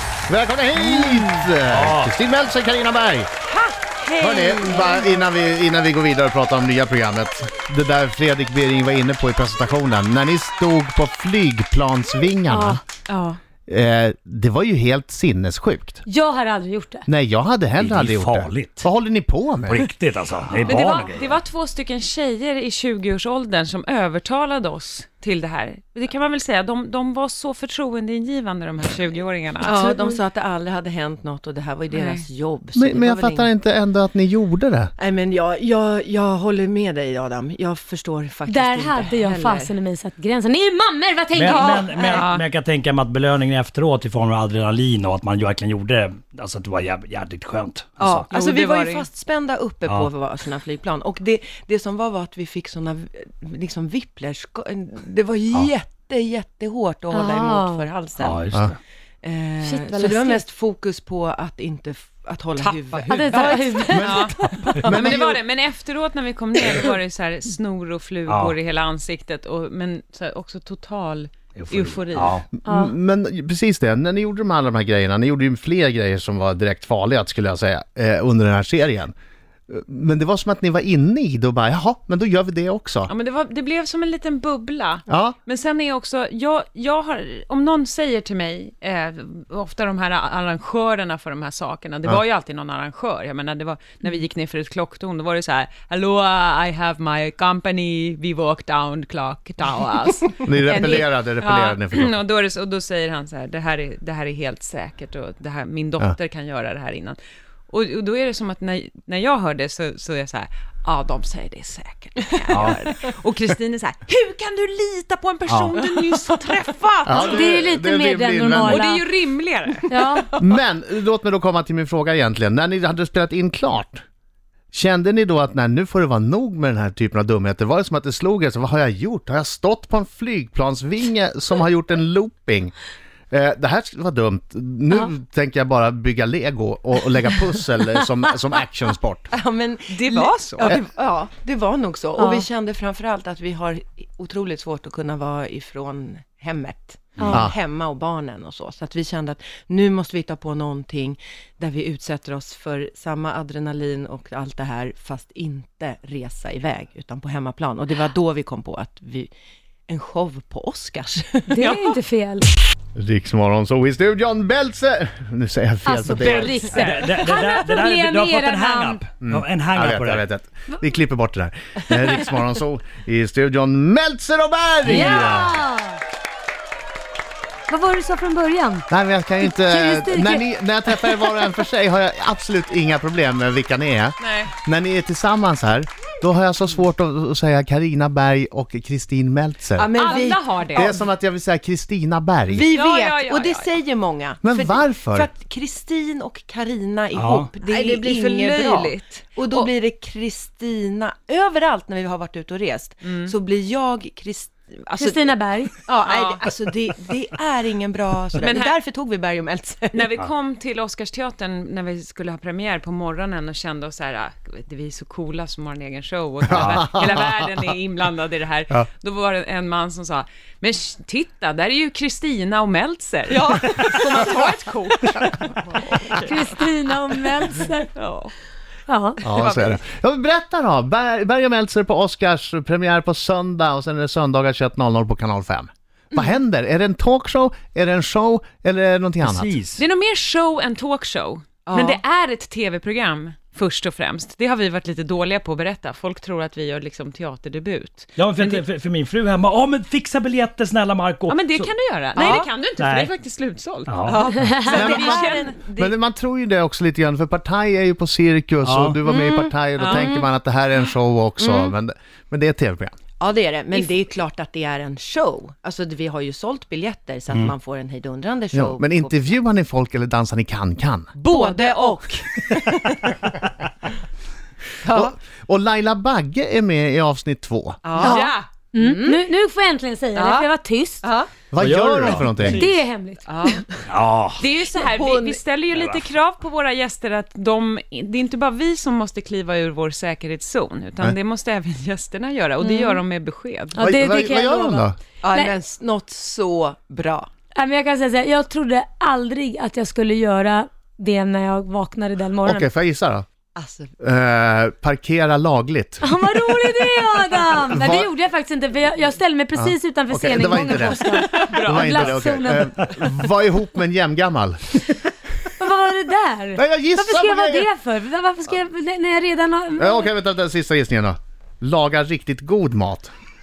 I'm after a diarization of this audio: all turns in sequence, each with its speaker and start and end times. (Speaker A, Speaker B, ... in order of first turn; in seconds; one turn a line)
Speaker A: 0.3-3.3
Speaker B: 0.8-1.3
Speaker C: 1.7-2.1
Speaker B: 3.5-5.1
Speaker A: 4.2-12.8
Speaker D: 12.5-12.8
Speaker B: 13.1-13.4
Speaker A: 13.7-16.0
Speaker D: 16.1-17.1
Speaker A: 17.1-19.9
Speaker C: 17.8-18.9
Speaker C: 19.7-21.3
Speaker B: 20.7-29.9
Speaker D: 20.8-21.1
Speaker E: 29.6-33.5
Speaker D: 29.7-30.2
Speaker B: 31.9-32.2
Speaker A: 32.8-34.9
Speaker E: 35.0-39.8
Speaker D: 38.5-41.9
Speaker C: 41.3-48.3
Speaker E: 41.4-42.3
Speaker B: 42.0-42.5
Speaker E: 48.0-58.5
Speaker B: 48.3-49.1
Speaker D: 57.1-57.9
Speaker C: 58.2-58.8
Speaker E: 59.2-64.1
Speaker D: 59.6-60.4
Speaker B: 62.6-63.3
Speaker D: 63.1-64.5
Speaker A: 63.7-65.4
Speaker B: 63.9-72.4
Speaker C: 64.7-65.0
Speaker C: 68.3-68.6
Speaker C: 71.6-72.5
Speaker A: 72.6-79.1
Speaker D: 72.7-73.0
Speaker A: 79.7-83.1
Speaker B: 83.1-107.2
Speaker A: 85.1-85.4
Speaker A: 100.4-102.2
Speaker B: 107.7-117.3
Speaker C: 112.5-112.8
Speaker E: 116.2-116.6
Speaker A: 117.1-118.8
Speaker D: 117.2-119.0
Speaker B: 118.5-120.1
Speaker D: 119.9-120.3
Speaker A: 120.4-124.0
Speaker A: 124.7-132.7
Speaker A: 133.3-139.3
Speaker E: 139.3-159.3
Speaker B: 139.9-140.8
Speaker D: 142.2-142.5
Speaker D: 147.2-147.5
Speaker A: 147.3-147.5
Speaker E: 159.9-162.0
Speaker D: 161.5-162.5
Speaker A: 163.0-166.7
Speaker D: 165.8-169.1
Speaker B: 166.2-166.5
Speaker C: 166.7-170.3
Speaker A: 169.2-175.6
Speaker C: 174.8-175.3
Speaker D: 174.9-176.0
Speaker D: 177.7-178.9
Speaker A: 178.9-189.9
Speaker D: 179.4-180.5
Speaker B: 184.2-184.5
Speaker E: 189.8-191.1
Speaker B: 189.9-191.0
Speaker A: 190.7-192.7
Speaker E: 192.5-210.2
Speaker B: 192.7-193.8
Speaker A: 194.4-195.3
Speaker C: 197.1-197.5
Speaker B: 197.6-199.7
Speaker B: 203.0-203.3
Speaker D: 205.0-205.7
Speaker B: 206.0-206.4
Speaker B: 208.4-208.8
Speaker B: 209.9-226.1
Speaker A: 216.5-217.1
Speaker E: 223.3-224.5
Speaker D: 225.9-227.9
Speaker B: 227.9-228.3
Speaker D: 228.9-229.2
Speaker A: 229.2-239.5
Speaker B: 229.3-229.8
Speaker C: 239.2-239.8
Speaker B: 239.8-248.6
Speaker E: 241.7-242.0
Speaker C: 248.2-251.7
Speaker B: 251.3-254.0
Speaker E: 252.2-252.5
Speaker C: 252.8-253.1
Speaker C: 253.9-254.5
Speaker E: 254.0-255.6
Speaker D: 254.5-255.0
Speaker B: 254.6-255.9
Speaker A: 254.7-262.9
Speaker C: 258.6-259.0
Speaker B: 259.8-260.1
Speaker E: 259.8-260.3
Speaker E: 261.4-261.7
Speaker E: 263.2-269.2
Speaker A: 268.5-271.1
Speaker E: 271.2-273.3
Speaker B: 271.2-272.1
Speaker E: 274.8-275.1
Speaker A: 274.9-277.9
Speaker E: 277.8-278.2
Speaker D: 277.9-281.1
Speaker B: 278.0-278.5
Speaker E: 278.8-279.2
Speaker E: 280.1-280.5
Speaker E: 281.0-281.3
Speaker A: 281.5-282.7
Speaker C: 281.6-282.7
Speaker D: 282.5-283.8
Speaker E: 283.3-283.6
Speaker C: 283.9-284.5
Speaker B: 284.4-293.8
Speaker E: 284.8-285.4
Speaker C: 285.7-286.1
Speaker D: 292.6-293.0
Speaker D: 293.8-295.5
Speaker A: 293.8-295.0
Speaker E: 295.2-297.3
Speaker D: 297.6-302.7
Speaker A: 302.4-303.3
Speaker E: 303.6-303.9
Speaker A: 304.0-306.9
Speaker D: 306.0-312.7
Speaker A: 307.7-308.1
Speaker A: 309.5-314.8
Speaker B: 311.3-312.3
Speaker D: 315.6-320.1
Speaker A: 316.6-317.7
Speaker A: 319.8-323.1